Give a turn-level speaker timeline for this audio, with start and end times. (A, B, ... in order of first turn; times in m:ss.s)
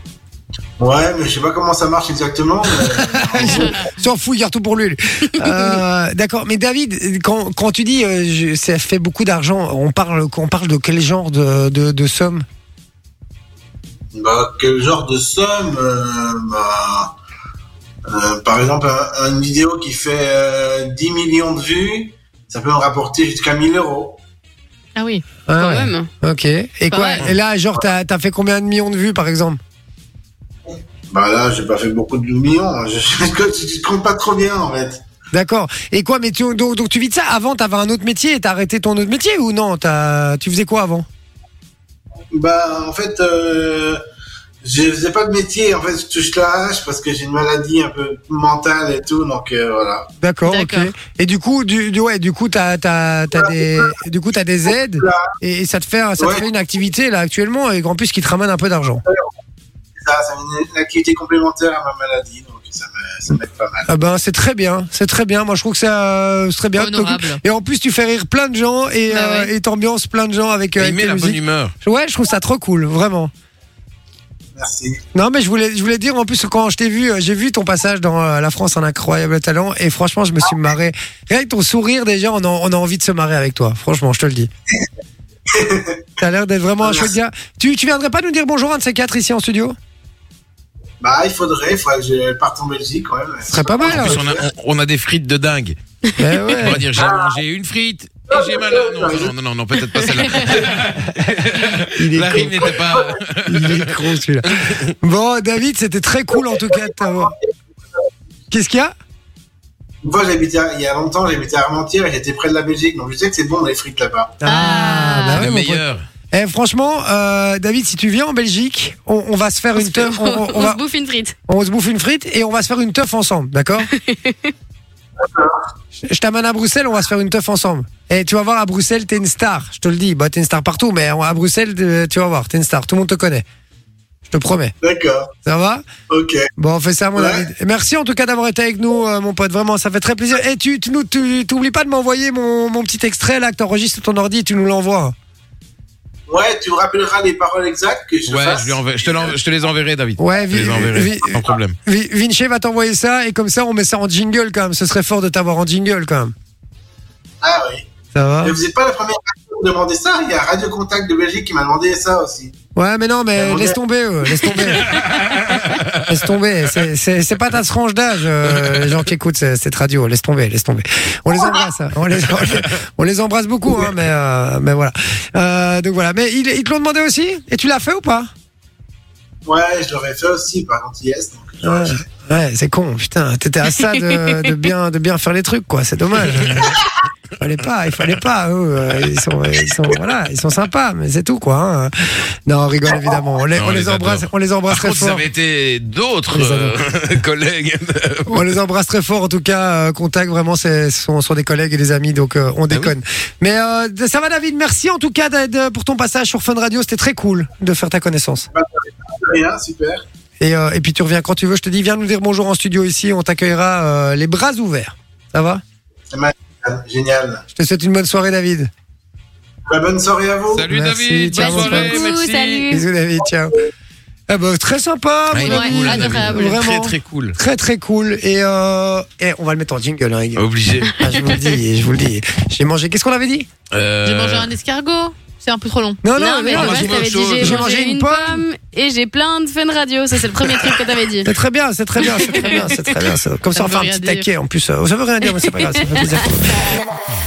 0:00.8-0:03.9 A
0:03.0-0:12.4 B
0:05.4-0:05.7 C
0:14.1-0:17.1 A
0:18.1-0:24.2 A
0:25.0-0:25.2 D
0:25.5-0:29.6 B
0:25.6-0:26.1 C
0:26.9-0:27.2 D
0:31.1-0:35.0 A
0:35.3-0:41.1 B
0:42.3-0:44.0 A
0:44.6-0:50.1 A
0:50.2-0:59.0 B
0:50.4-0:50.9 D
0:53.4-0:53.9 A
0:55.0-0:55.3 A
0:56.2-0:56.4 A
1:00.0-1:03.9 A
1:03.9-1:13.3 B
1:06.8-1:07.4 D
1:09.1-1:09.5 D
1:10.8-1:11.8 E
1:14.6-1:15.0 A
1:15.1-1:24.5 B
1:25.5-1:26.0 A
1:26.2-1:29.8 B
1:26.8-1:27.1 A
1:31.0-1:34.4 A
1:33.4-1:34.2 B
1:33.8-1:35.8 E
1:36.2-1:36.9 B
1:36.6-1:44.9 E
1:37.0-1:37.4 A
1:38.3-1:39.3 A
1:41.9-1:42.8 B
1:43.4-1:44.5 B
1:45.0-1:47.3 B
1:46.6-1:47.3 A
1:48.5-1:48.9 B
1:50.0-1:54.4 A
1:54.4-2:00.8 B
1:54.4-1:55.5 C
1:55.4-1:56.0 E
1:59.8-2:01.4 C
2:01.5-2:03.9 B
2:03.8-2:04.5 C
2:05.2-2:05.6 A
2:06.0-2:13.4 B
2:14.3-2:14.7 B
2:14.8-2:15.3 A
2:15.4-2:15.8 B
2:16.1-2:16.5 A
2:16.6-2:25.1 B
2:17.2-2:17.5 A
2:26.3-2:29.4 A
2:28.3-2:31.8 E
2:30.2-2:36.3 B
2:37.4-2:37.9 A
2:38.1-2:38.6 B
2:38.4-2:42.5 A
2:42.8-2:45.0 B
2:43.4-2:43.8 A
2:44.5-2:46.1 E
2:45.9-2:58.3 B
2:48.5-2:48.9 E
2:59.4-3:02.0 A
3:01.6-3:06.8 B
3:03.9-3:04.4 C
3:06.4-3:06.7 E
3:07.4-3:11.9 B
3:12.5-3:15.2 B
3:13.6-3:18.5 E
3:16.3-3:16.7 B
3:18.3-3:28.5 B
3:22.7-3:23.0 E
3:28.5-3:30.0 A
3:30.4-3:35.6 B
3:36.1-3:37.4 A
3:37.5-3:38.7 B
3:39.7-3:40.6 A
3:40.5-3:42.7 E
3:40.7-3:42.1 B
3:41.3-3:42.9 C
3:42.7-3:43.5 B
3:44.3-3:50.4 B
3:45.3-3:47.4 E
3:45.4-3:46.7 D
3:50.4-3:51.0 E
3:51.0-3:53.5 B
3:51.1-3:51.5 C
3:53.7-3:54.5 E
3:54.0-3:56.0 D
3:56.0-3:58.4 B
3:56.2-4:01.3 C
3:56.5-3:57.7 E
4:01.2-4:06.4 B
4:02.3-4:02.9 C
4:03.5-4:04.3 D